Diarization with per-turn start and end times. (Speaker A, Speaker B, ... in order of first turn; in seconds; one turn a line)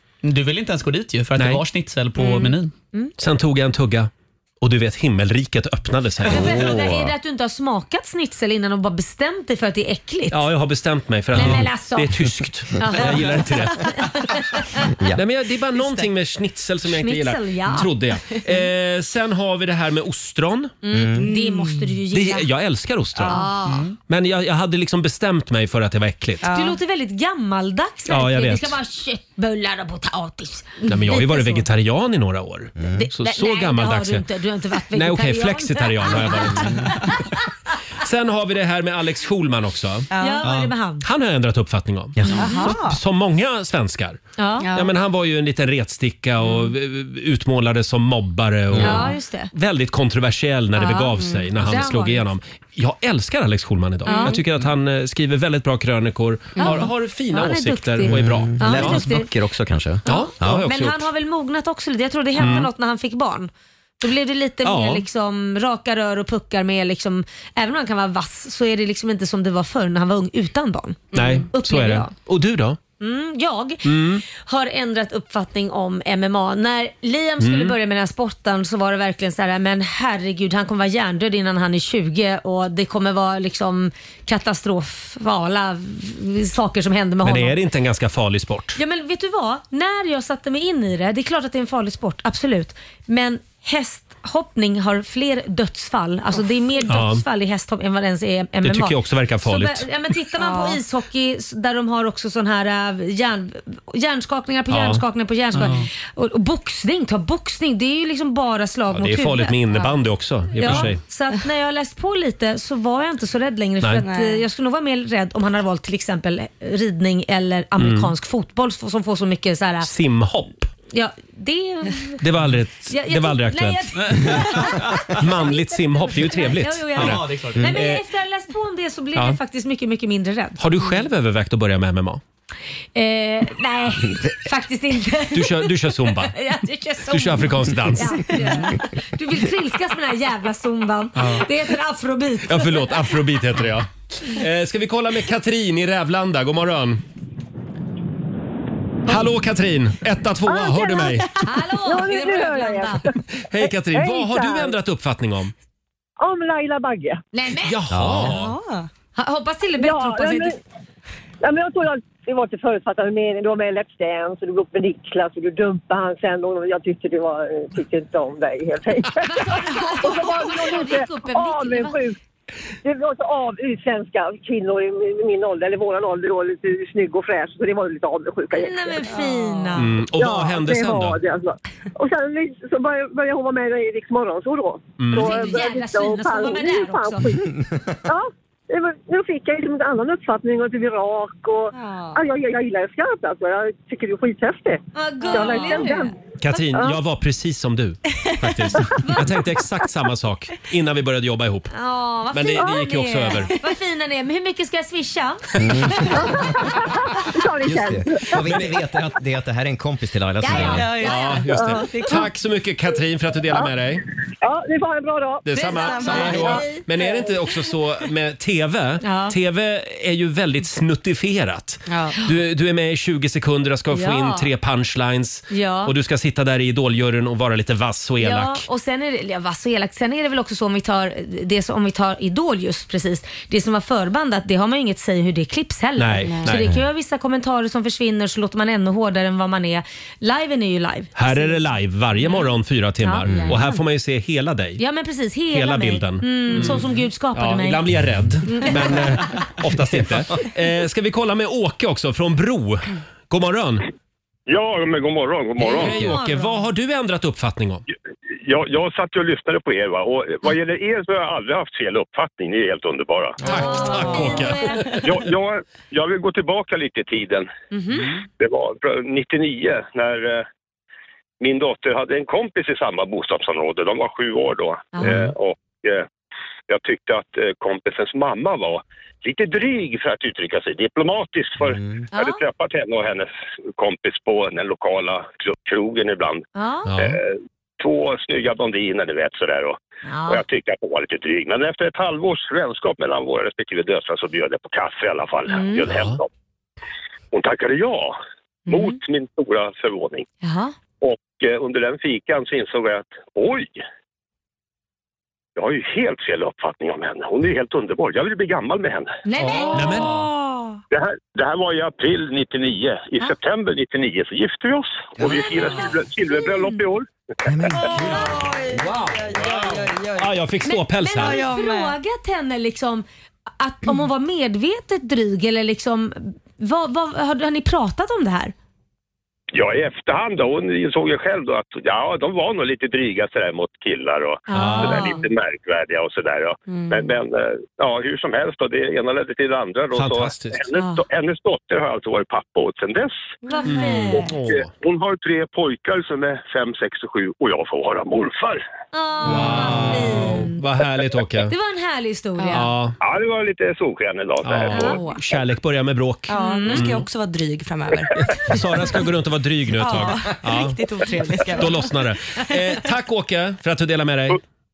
Speaker A: 0.2-2.7
Speaker B: 1.4-1.6
Speaker C: 2.2-3.1
Speaker B: 3.2-4.1
Speaker B: 4.6-6.8
Speaker C: 6.3-10.5
Speaker D: 6.3-7.1
Speaker B: 10.3-14.2
Speaker C: 11.3-12.3
Speaker C: 12.8-14.9
Speaker B: 15.1-20.8
Speaker C: 16.9-17.9
Speaker C: 20.8-22.5
Speaker D: 20.9-21.3
Speaker E: 21.2-21.9
Speaker B: 22.1-23.4
Speaker C: 23.2-23.8
Speaker B: 24.1-26.4
Speaker E: 26.4-26.8
Speaker C: 26.5-31.7
Speaker B: 28.1-28.8
Speaker B: 30.9-34.3
Speaker D: 32.8-33.1
Speaker C: 32.9-37.2
Speaker B: 34.9-37.1
Speaker B: 38.0-40.1
Speaker E: 40.1-40.4
Speaker C: 40.2-41.0
Speaker A: 40.4-40.8
Speaker B: 41.0-59.0
Speaker D: 42.2-42.5
Speaker C: 42.4-42.8
Speaker E: 42.5-42.8
Speaker C: 44.4-44.7
Speaker D: 48.7-49.1
Speaker C: 48.8-49.5
Speaker C: 50.8-52.3
Speaker C: 54.0-54.4
Speaker C: 56.6-59.3
Speaker D: 58.1-60.6
Speaker C: 60.0-72.1
Speaker B: 60.1-61.1
Speaker B: 62.4-62.7
Speaker B: 64.6-65.0
Speaker B: 71.1-72.8
Speaker C: 73.0-87.6
Speaker B: 73.8-74.2
Speaker B: 77.4-77.8
Speaker B: 87.2-88.8
Speaker C: 88.8-109.9
Speaker B: 96.9-97.2
Speaker B: 98.6-99.9
Speaker E: 100.5-100.8
Speaker B: 104.7-105.0
Speaker A: 105.5-105.9
Speaker B: 108.9-111.0
Speaker C: 110.5-119.9
Speaker E: 114.0-114.4
Speaker B: 117.8-118.1
Speaker B: 119.8-120.7
Speaker C: 120.9-122.2
Speaker B: 122.2-128.0
Speaker C: 122.9-130.6
Speaker A: 124.0-125.1
Speaker A: 127.0-127.8
Speaker B: 130.6-132.2
Speaker C: 132.9-143.0
Speaker B: 135.3-136.3
Speaker B: 137.1-138.7
Speaker B: 141.2-141.4
Speaker B: 142.4-147.0
Speaker B: 149.1-151.3
Speaker F: 150.5-151.2
Speaker C: 151.4-153.0
Speaker F: 151.8-153.1
Speaker B: 153.5-155.5
Speaker F: 153.6-154.8
Speaker F: 156.2-157.2
Speaker C: 157.3-157.8
Speaker B: 157.6-158.6
Speaker D: 157.9-158.3
Speaker E: 158.2-158.9
Speaker C: 159.2-160.6
Speaker F: 159.8-160.6
Speaker F: 161.4-172.2
Speaker C: 169.3-172.0
Speaker F: 172.8-179.1
Speaker C: 178.5-180.0
Speaker E: 179.1-179.7
Speaker B: 179.8-181.2
Speaker F: 180.1-187.5
Speaker B: 185.0-185.4
Speaker C: 185.1-187.3
Speaker F: 188.1-196.2
Speaker E: 191.8-192.2
Speaker C: 194.9-196.1
Speaker E: 195.3-195.6
Speaker B: 196.4-201.7
Speaker C: 199.0-199.4
Speaker C: 201.7-206.6
Speaker B: 202.3-203.5
Speaker D: 205.6-206.4
Speaker F: 206.8-208.5
Speaker D: 207.7-210.9
Speaker B: 208.4-208.7
Speaker C: 210.4-211.5
Speaker B: 210.6-214.0
Speaker E: 210.7-212.2
Speaker F: 214.4-216.1
Speaker B: 215.4-228.7
Speaker E: 215.7-216.7
Speaker C: 215.8-216.6
Speaker F: 217.0-217.3
Speaker C: 219.0-219.3
Speaker E: 221.9-222.1
Speaker C: 223.9-224.5
Speaker C: 225.5-225.9
Speaker C: 228.2-241.6
Speaker B: 236.0-236.8
Speaker B: 241.2-244.8
Speaker C: 243.0-243.6
Speaker D: 243.3-243.6
Speaker C: 244.8-247.9
Speaker B: 245.5-253.9
Speaker C: 248.5-249.2
Speaker G: 254.5-256.0
Speaker B: 255.6-257.8
Speaker C: 255.7-256.6
Speaker G: 258.4-263.4
Speaker B: 263.4-265.1
Speaker C: 263.4-265.0
Speaker G: 265.0-267.5
Speaker C: 267.7-268.2
Speaker G: 268.2-270.5
Speaker G: 271.4-276.1
Speaker C: 274.9-275.3
Speaker G: 276.7-286.5
Speaker D: 281.6-282.1
Speaker C: 282.1-282.4
Speaker C: 286.6-286.9
Speaker B: 286.9-287.2
Speaker G: 287.0-296.3
Speaker C: 290.1-290.4
Speaker C: 295.5-295.9
Speaker B: 295.9-296.2
Speaker G: 297.3-298.2
Speaker C: 298.7-299.0
Speaker G: 298.7-300.3
Speaker C: 300.4-300.8
Speaker G: 301.0-303.8
Speaker G: 305.6-309.2
Speaker C: 309.2-310.1
Speaker B: 309.7-310.3
Speaker G: 310.9-317.1
Speaker C: 315.2-316.8
Speaker D: 317.4-318.3
Speaker E: 317.8-320.2
Speaker B: 318.4-321.4
Speaker C: 320.6-323.1
Speaker E: 321.2-321.9
Speaker C: 323.6-328.5
Speaker G: 329.5-343.3
Speaker C: 334.5-335.2
Speaker B: 334.5-335.1
Speaker E: 336.7-337.0
Speaker B: 339.9-340.6
Speaker C: 340.8-341.0
Speaker C: 343.5-344.3
Speaker B: 343.6-344.7
Speaker G: 344.1-348.6
Speaker C: 348.9-350.6
Speaker B: 349.2-351.5
Speaker C: 351.5-352.7
Speaker B: 352.5-353.0
Speaker G: 353.0-355.0
Speaker B: 354.4-357.0
Speaker C: 354.7-355.1
Speaker E: 354.8-355.1
Speaker E: 356.3-358.5
Speaker C: 356.3-356.9
Speaker B: 358.5-360.8
Speaker E: 359.8-361.9
Speaker B: 361.5-364.4